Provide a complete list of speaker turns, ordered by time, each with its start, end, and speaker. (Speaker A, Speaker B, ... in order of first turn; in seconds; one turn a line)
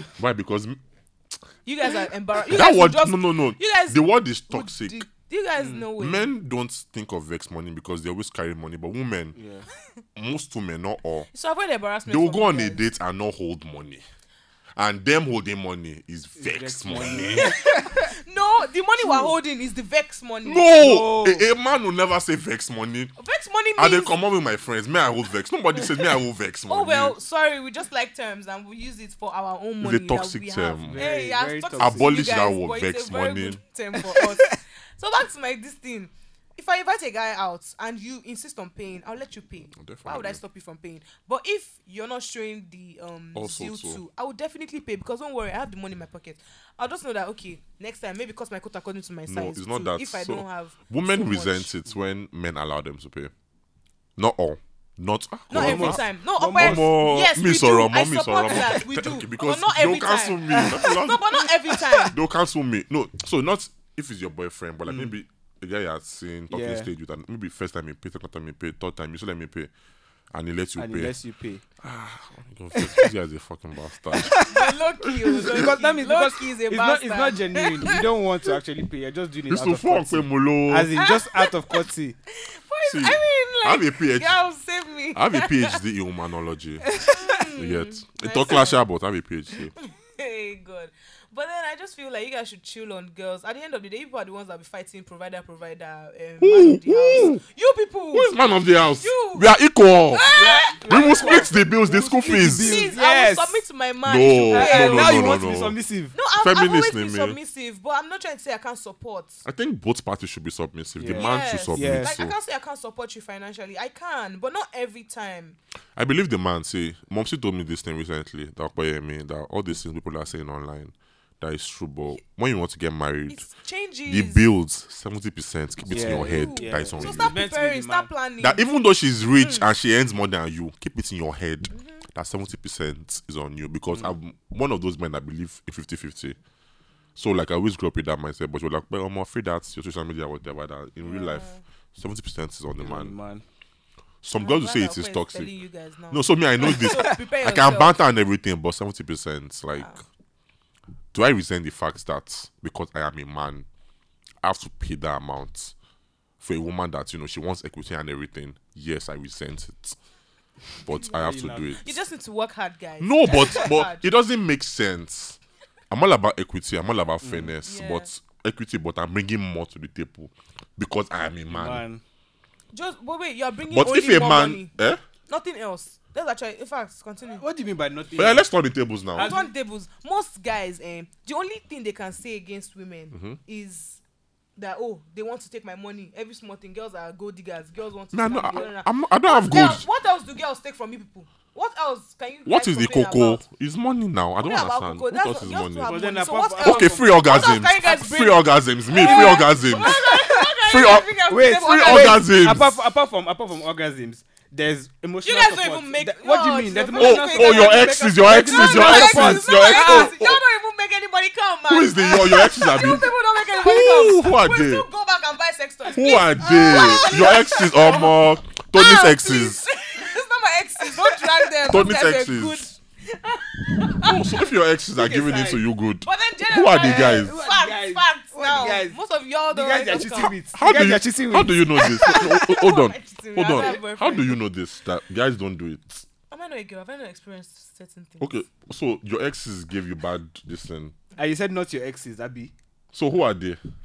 Speaker A: 0.2-0.8
Speaker B: 1.6-6.3
Speaker A: 2.5-5.0
Speaker C: 5.6-5.8
Speaker A: 6.0-9.4
Speaker C: 9.3-9.7
Speaker A: 10.2-11.3
Speaker B: 11.3-12.8
Speaker A: 12.1-14.0
Speaker A: 14.8-17.5
Speaker C: 16.4-18.1
Speaker B: 17.4-20.7
Speaker C: 19.0-19.3
Speaker A: 20.4-23.1
Speaker C: 20.7-21.5
Speaker B: 23.2-24.1
Speaker A: 23.8-27.1
Speaker B: 25.8-26.1
Speaker B: 26.7-51.7
Speaker A: 29.8-31.0
Speaker C: 30.8-32.1
Speaker A: 31.8-33.6
Speaker C: 34.0-34.6
Speaker A: 39.8-40.4
Speaker A: 43.3-44.0
Speaker A: 49.3-53.3
Speaker A: 54.2-56.0
Speaker B: 55.5-62.1
Speaker C: 55.5-57.0
Speaker A: 56.5-69.7
Speaker C: 60.5-61.0
Speaker C: 64.9-65.1
Speaker C: 66.5-66.9
Speaker A: 70.3-71.1
Speaker C: 70.8-71.6
Speaker A: 71.8-75.8
Speaker C: 72.7-73.1
Speaker C: 74.1-74.7
Speaker B: 74.4-78.0
Speaker C: 75.3-82.2
Speaker A: 79.5-80.9
Speaker B: 80.9-85.8
Speaker A: 82.8-84.3
Speaker A: 85.1-87.0
Speaker C: 86.9-87.3
Speaker B: 87.0-88.8
Speaker A: 87.5-89.7
Speaker B: 89.8-98.4
Speaker A: 96.4-97.4
Speaker A: 98.1-102.9
Speaker B: 99.0-99.5
Speaker B: 100.1-101.6
Speaker C: 100.3-103.6
Speaker B: 102.3-105.4
Speaker A: 104.0-105.8
Speaker C: 104.5-106.1
Speaker B: 106.1-109.4
Speaker A: 106.4-107.4
Speaker A: 109.4-112.3
Speaker C: 111.0-112.1
Speaker B: 111.1-115.6
Speaker A: 116.0-123.5
Speaker B: 123.3-124.4
Speaker A: 124.0-127.4
Speaker C: 125.9-128.1
Speaker B: 125.9-128.6
Speaker A: 128.4-136.4
Speaker B: 129.4-129.7
Speaker B: 131.7-132.0
Speaker A: 137.2-143.2
Speaker B: 141.0-141.6
Speaker C: 142.8-143.4
Speaker A: 144.2-145.5
Speaker B: 144.4-147.9
Speaker A: 146.1-150.0
Speaker C: 146.7-147.1
Speaker B: 149.7-150.0
Speaker A: 151.1-153.7
Speaker A: 154.4-155.7
Speaker A: 156.4-160.0
Speaker A: 160.8-161.8
Speaker C: 160.9-161.8
Speaker B: 161.8-164.0
Speaker A: 163.0-165.4
Speaker A: 165.9-171.8
Speaker C: 167.2-167.5
Speaker B: 167.6-168.1
Speaker C: 171.5-172.0
Speaker B: 172.7-174.7
Speaker A: 173.7-175.0
Speaker B: 175.3-177.4
Speaker C: 177.4-178.4
Speaker A: 178.1-179.3
Speaker C: 179.1-179.5
Speaker B: 179.2-184.0
Speaker A: 183.1-183.4
Speaker B: 184.6-193.4
Speaker A: 188.1-189.8
Speaker A: 192.4-195.9
Speaker B: 194.4-202.2
Speaker C: 195.8-197.2
Speaker A: 196.6-200.0
Speaker C: 199.0-200.5
Speaker A: 200.6-202.8
Speaker C: 201.3-210.2
Speaker B: 205.2-218.2
Speaker A: 207.0-210.4
Speaker A: 211.7-214.8
Speaker A: 215.9-219.6
Speaker C: 216.6-217.4
Speaker B: 218.7-224.2
Speaker C: 220.9-221.3
Speaker A: 221.7-222.6
Speaker A: 224.0-227.4
Speaker C: 224.9-225.6
Speaker B: 226.0-230.3
Speaker C: 226.8-229.0
Speaker C: 229.5-232.2
Speaker A: 230.5-236.1
Speaker B: 231.7-234.4
Speaker B: 236.3-238.3
Speaker A: 238.2-240.9
Speaker C: 241.2-242.5
Speaker A: 242.9-243.6